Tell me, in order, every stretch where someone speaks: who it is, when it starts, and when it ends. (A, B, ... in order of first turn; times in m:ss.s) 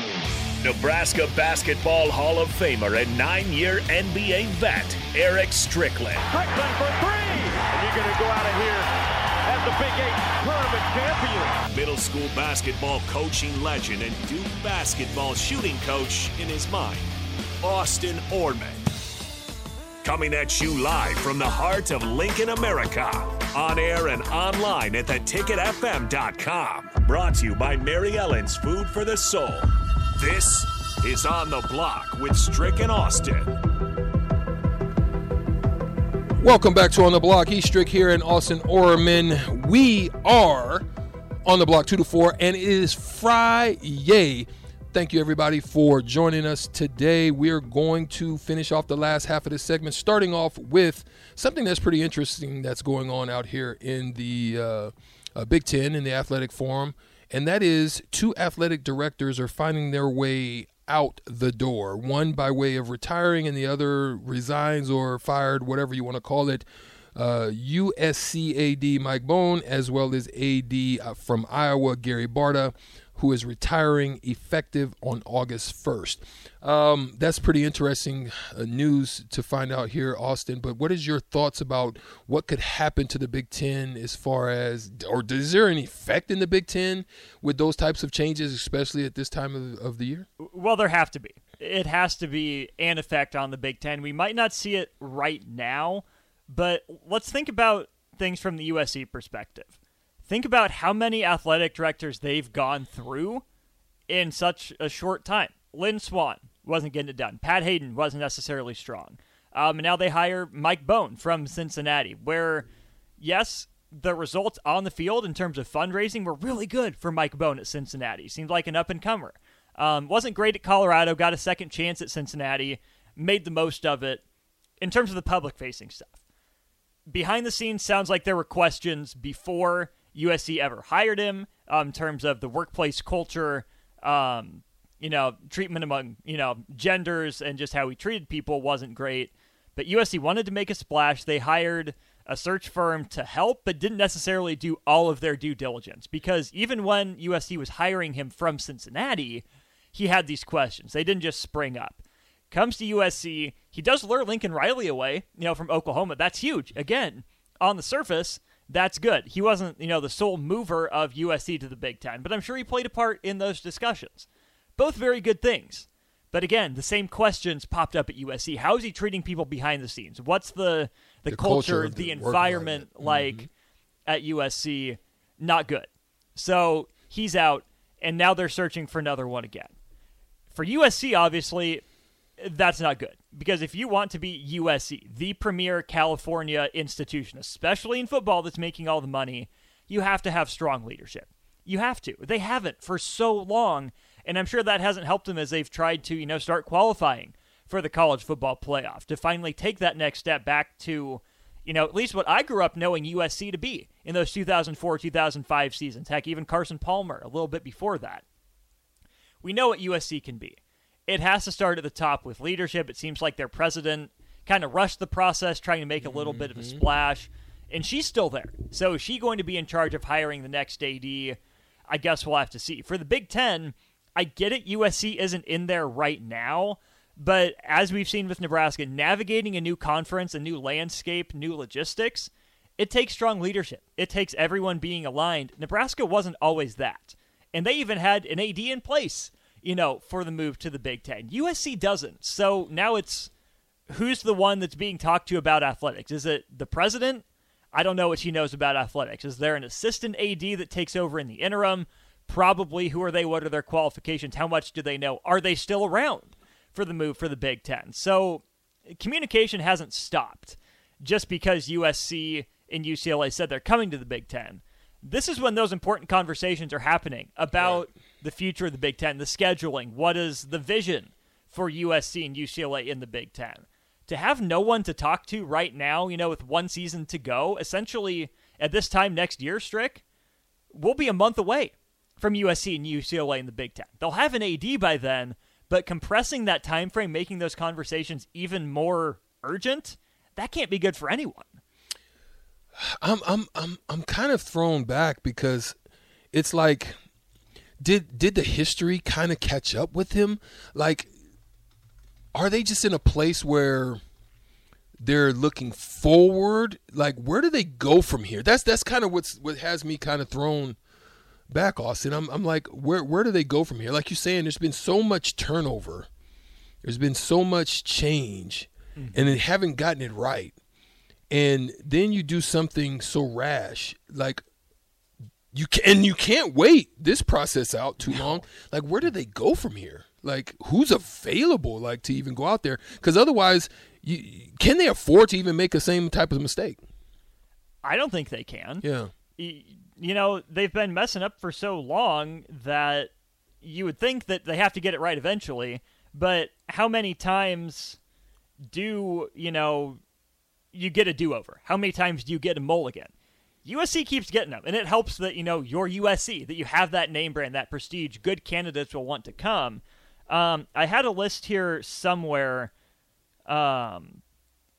0:00.6-0:06.3 A
0:06.2-0:11.6 B
0:11.6-0:17.1 A
0:17.6-0:18.8 A
0:20.0-0:33.6 A
0:36.4-0:40.8 C
0:41.4-1:30.3 C
1:30.4-1:39.7 D
1:40.3-1:43.4 D
1:44.1-1:52.7 D
1:53.2-2:04.2 D
2:04.8-2:06.2 D
2:07.1-2:53.5 D
2:51.3-2:53.5 C
2:54.1-2:59.7 D
3:00.5-3:01.8 D
3:02.4-3:28.2 D
3:29.4-4:03.3 D
3:36.0-3:36.8 C
4:03.9-4:40.0 D
4:27.5-4:27.8 C
4:40.7-4:51.6 D
4:52.8-4:55.8 C
4:56.3-4:57.0 C
4:57.8-5:01.1 C
5:02.3-5:04.0 C
5:05.0-5:10.8 C
5:11.5-5:16.1 C
5:16.8-5:20.6 C
5:19.0-5:19.4 D
5:21.3-5:24.4 C
5:25.5-5:36.8 C
5:28.0-5:28.4 D
5:37.8-5:48.0 D
5:38.8-5:39.1 C
5:48.7-5:50.0 D
5:50.7-5:53.1 D
5:53.6-6:02.7 D
6:03.5-6:04.2 D